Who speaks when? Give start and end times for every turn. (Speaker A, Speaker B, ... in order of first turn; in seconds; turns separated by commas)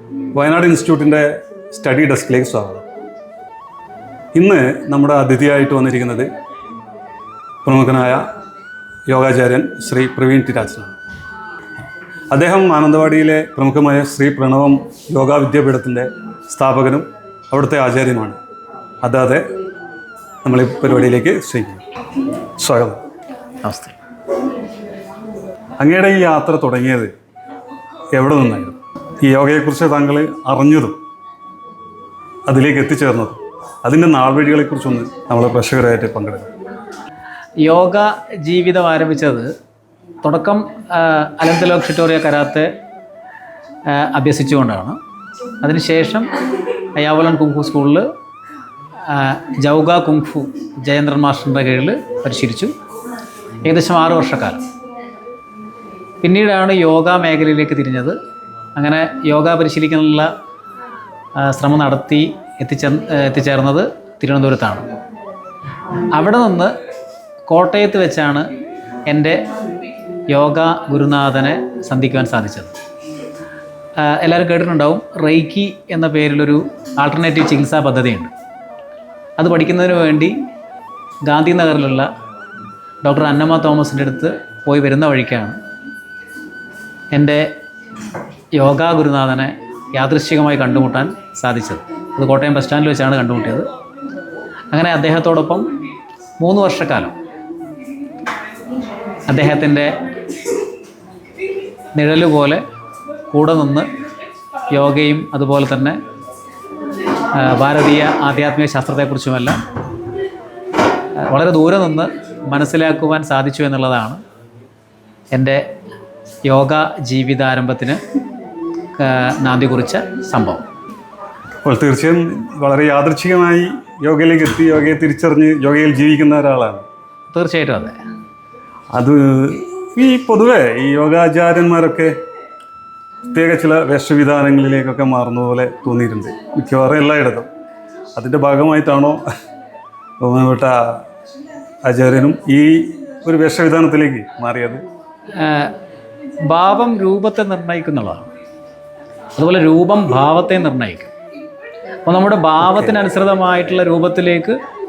Speaker A: 0.3-2.8, Speaker A: 4.3-6.3, Speaker A: 7.6-8.2, Speaker A: 9.1-10.9, Speaker A: 12.3-18.4, Speaker A: 19.0-19.4, Speaker A: 20.4-21.8, Speaker A: 22.6-23.0, Speaker B: 23.6-23.9, Speaker A: 25.8-27.1, Speaker A: 28.2-31.0, Speaker A: 32.5-36.5, Speaker B: 37.6-39.5, Speaker B: 40.2-42.7, Speaker B: 43.9-45.0, Speaker B: 45.6-46.3, Speaker B: 47.0-48.0, Speaker B: 49.1-52.7, Speaker B: 53.7-54.6, Speaker B: 56.2-58.2, Speaker B: 58.8-60.3, Speaker B: 61.4-64.9, Speaker B: 66.2-66.7, Speaker B: 67.5-68.5, Speaker B: 69.1-69.4, Speaker B: 70.3-72.8, Speaker B: 74.0-78.3, Speaker B: 79.4-80.3, Speaker B: 81.3-82.1, Speaker B: 83.0-85.6, Speaker B: 87.1-87.5, Speaker B: 88.6-93.7, Speaker B: 94.7-95.7, Speaker B: 96.4-97.2, Speaker B: 99.3-99.9, Speaker B: 102.0-102.6, Speaker B: 103.3-103.9, Speaker B: 104.7-106.0, Speaker B: 107.4-109.6, Speaker B: 111.2-114.2, Speaker B: 115.3-115.6, Speaker B: 116.5-118.0, Speaker B: 119.0-120.6, Speaker A: 121.7-126.8, Speaker B: 127.3-128.0, Speaker A: 128.9-132.1, Speaker A: 133.3-137.5, Speaker A: 138.2-139.2, Speaker A: 140.2-141.0, Speaker A: 141.8-144.8, Speaker B: 145.4-145.7, Speaker B: 146.5-148.3, Speaker B: 149.4-151.1, Speaker B: 152.1-154.6, Speaker A: 152.6-153.0